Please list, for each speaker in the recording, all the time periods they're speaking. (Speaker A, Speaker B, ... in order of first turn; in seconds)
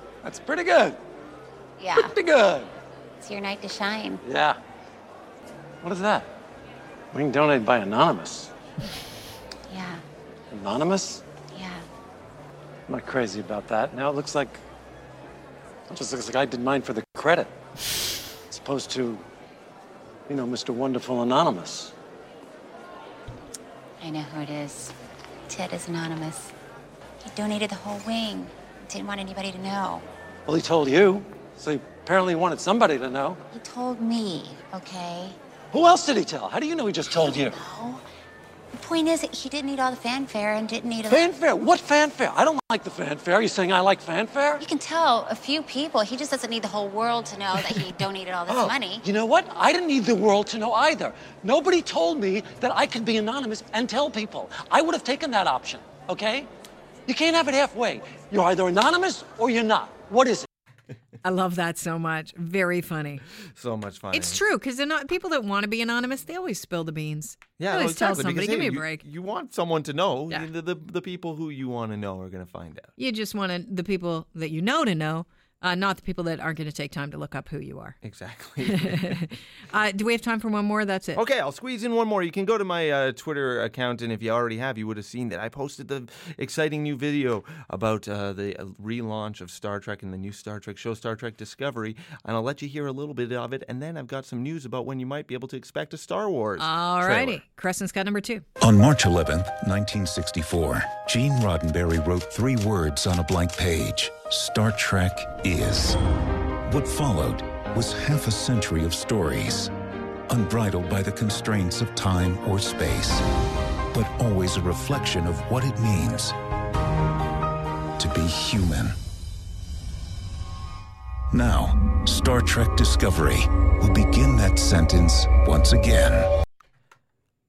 Speaker A: 0.2-1.0, 1.9-2.7, 4.2-4.6, 5.8-6.3, 7.1-8.5, 10.5-11.2, 12.9-14.6, 15.9-17.5, 18.5-19.2, 20.3-21.9, 30.4-33.4, 35.7-37.6, 41.1-44.6, 48.5-56.5, 57.1-60.5
Speaker B: 1.8-2.1, 3.2-4.2, 9.7-10.0, 11.5-11.8, 24.0-24.9, 25.5-26.5, 27.2-30.1, 33.5-35.4, 37.1-38.0, 38.7-41.3, 44.6-49.0
Speaker C: 61.2-63.2, 64.1-69.0, 73.0-78.0, 78.6-81.2, 96.6-98.5
Speaker D: 63.5-64.4, 67.6-72.9, 78.0-79.1, 81.1-97.4
Speaker E: 98.6-106.0, 106.7-109.7, 110.3-113.2, 113.9-116.4, 118.0-119.0, 121.3-126.3